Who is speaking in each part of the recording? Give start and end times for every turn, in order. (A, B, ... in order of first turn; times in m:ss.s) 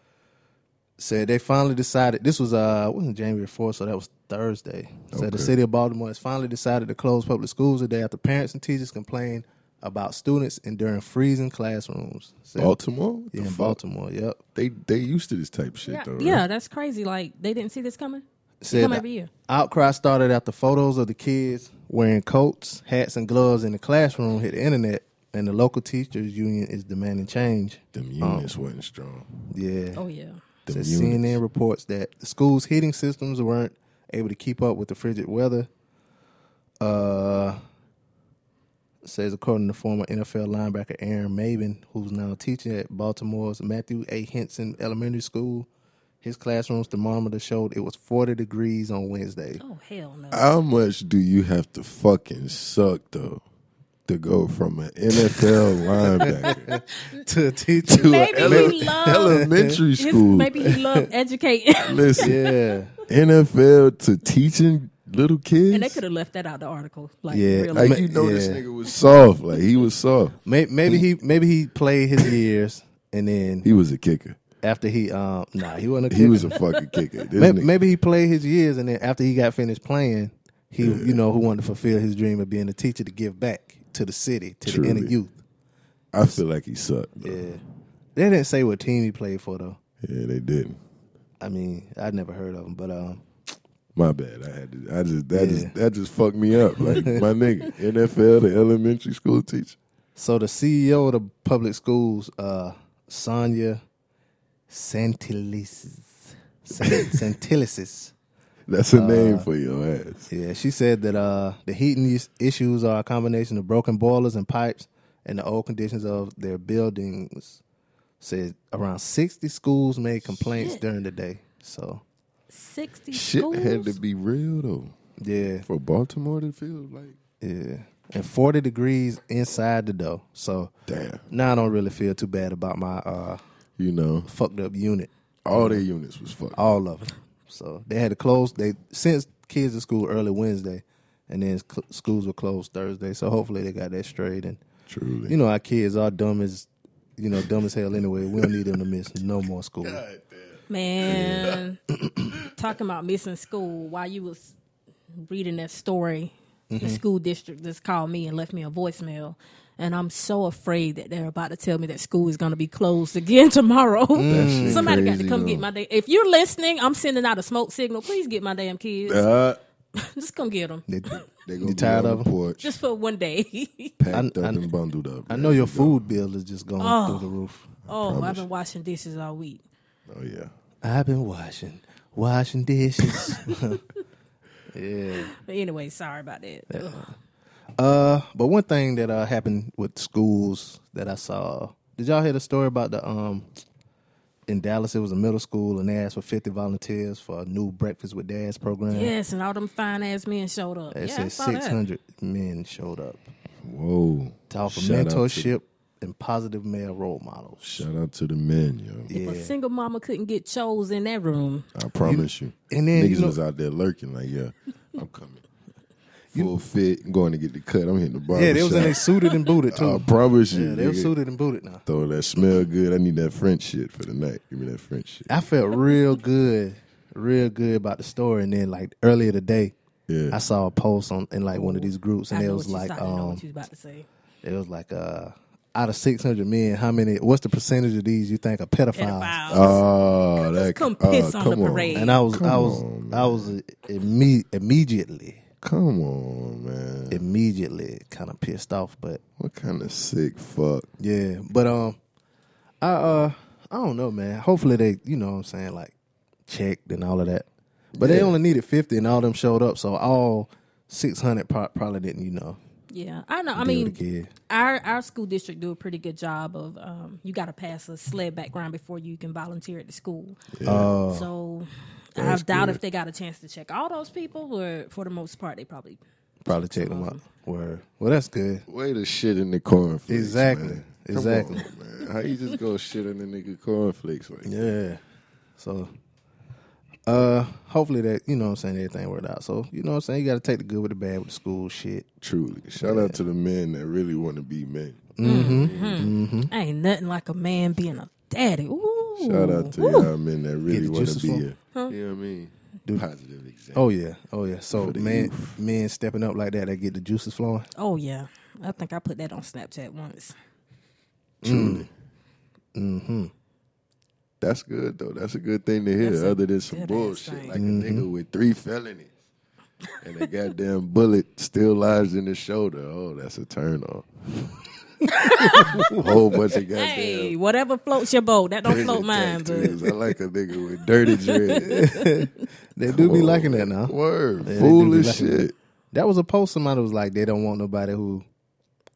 0:01.0-0:12.8 A
0:05.1-0:05.5 B
0:12.6-0:13.8 B
0:13.3-0:14.4 A
0:14.5-0:16.4 B
0:15.9-0:19.3 C
0:18.6-0:28.5 A
0:27.9-0:29.3 B
0:29.5-0:30.0 A
0:30.0-0:30.4 C
0:30.6-0:31.4 B
0:30.7-0:35.7 A
0:36.8-0:37.6 A
0:39.0-0:45.7 A
0:46.2-0:49.6 A
0:49.6-0:50.5 C
0:50.3-0:53.4 B
0:54.0-0:56.7 B
0:56.2-0:59.7 A
0:57.9-1:00.6 B
0:57.9-0:59.4 C
1:00.0-1:02.4 C
1:00.6-1:01.0 A
1:01.8-1:02.4 B
1:02.2-1:02.9 A
1:03.1-1:06.0 B
1:05.7-1:08.0 C
1:07.3-1:08.6 A
1:07.7-1:11.0 B
1:10.4-1:13.6 A
1:13.6-1:14.4 B
1:14.6-1:16.6 A
1:16.1-1:17.7 B
1:16.6-1:16.8 C
1:17.4-1:25.4 A
1:20.8-1:21.2 B
1:24.6-1:25.1 B
1:26.1-1:27.4 B
1:27.2-1:27.6 A
1:28.2-1:29.8 A
1:30.0-1:30.8 B
1:31.4-1:33.2 A
1:34.0-1:39.8 B
1:35.3-1:35.7 A
1:36.8-1:37.2 A
1:40.2-1:43.8 A
1:44.7-1:48.1 A
1:46.8-1:47.2 B
1:48.7-1:50.3 B
1:48.9-1:49.5 A
1:50.3-1:57.6 A
1:58.2-2:02.0 A
2:02.5-2:04.0 C
2:03.1-2:04.9 B
2:05.2-2:05.6 A
2:05.6-2:07.2 B
2:07.4-2:10.7 A
2:10.9-2:11.2 B
2:11.3-2:13.4 A
2:13.8-2:14.3 B
2:14.2-2:15.8 A
2:15.4-2:16.7 B
2:16.5-2:24.6 A
2:24.9-2:25.4 B
2:25.3-2:30.0 A
2:28.3-2:28.6 B
2:29.8-2:31.6 B
2:30.7-2:31.8 C
2:32.4-2:34.5 C
2:35.2-2:49.3 C
2:36.7-2:37.0 A
2:44.1-2:45.0 A
2:44.3-2:45.6 B
2:49.0-2:49.6 B
2:50.0-2:51.2 C
2:50.9-2:52.3 A
2:51.3-2:52.7 B
2:52.6-2:54.0 C
2:54.0-2:56.0 B
2:54.1-2:54.6 A
2:55.3-2:57.7 A
2:56.8-2:57.3 C
2:57.8-2:59.6 C
2:57.9-2:58.4 B
3:00.1-3:00.5 B
3:00.8-3:03.8 A
3:04.7-3:05.3 A
3:05.2-3:07.1 C
3:06.7-3:07.1 A
3:07.8-3:13.5 A
3:14.5-3:19.1 A
3:18.9-3:21.8 C
3:20.9-3:23.3 A
3:23.6-3:25.5 B
3:24.5-3:27.8 A
3:27.6-3:29.1 B
3:29.1-3:29.5 A
3:29.1-3:31.6 C
3:31.7-3:35.4 B
3:32.0-3:33.4 A
3:36.3-3:39.0 B
3:38.3-3:41.8 A
3:39.7-3:41.1 B
3:41.8-3:45.3 B
3:45.3-3:49.7 A
3:50.1-3:50.4 B
3:50.3-3:53.4 A
3:51.5-3:54.0 C
3:54.4-3:59.7 A
3:58.9-3:59.8 C
3:59.5-4:03.5 B
4:00.4-4:02.2 C
4:02.0-4:05.4 A
4:05.6-4:07.2 B
4:07.1-4:09.2 A
4:09.4-4:10.9 B
4:11.0-4:12.0 A
4:12.8-4:15.9 A
4:16.5-4:17.4 A
4:17.9-4:18.3 B
4:18.0-4:22.6 A
4:22.9-4:24.0 C
4:23.6-4:24.3 A
4:24.5-4:30.5 C
4:30.5-4:30.9 B
4:30.6-4:31.3 A
4:31.1-4:36.0 C
4:32.2-4:32.8 B
4:36.4-4:38.6 A
4:36.6-4:37.2 C
4:38.7-4:44.6 B
4:40.1-4:41.6 A
4:44.4-4:45.0 A
4:45.6-4:45.9 A
4:47.1-4:52.0 A
4:52.2-4:56.1 B
4:52.8-4:53.2 A
4:55.2-4:56.5 A
4:55.2-5:00.1 C
4:59.2-5:03.9 B
5:00.7-5:01.4 A
5:03.7-5:07.7 A
5:04.7-5:05.6 B
5:07.8-5:10.3 C
5:11.4-5:11.9 A
5:11.4-5:11.9 B
5:12.7-5:13.3 A
5:14.4-5:19.1 B
5:16.0-5:17.6 C
5:17.5-5:18.1 A
5:20.0-5:24.1 B
5:25.1-5:25.9 C
5:25.5-5:27.3 B
5:26.7-5:30.0 C
5:28.6-5:31.7 B
5:31.1-5:32.0 C
5:31.6-5:38.2 A
5:32.9-5:35.5 B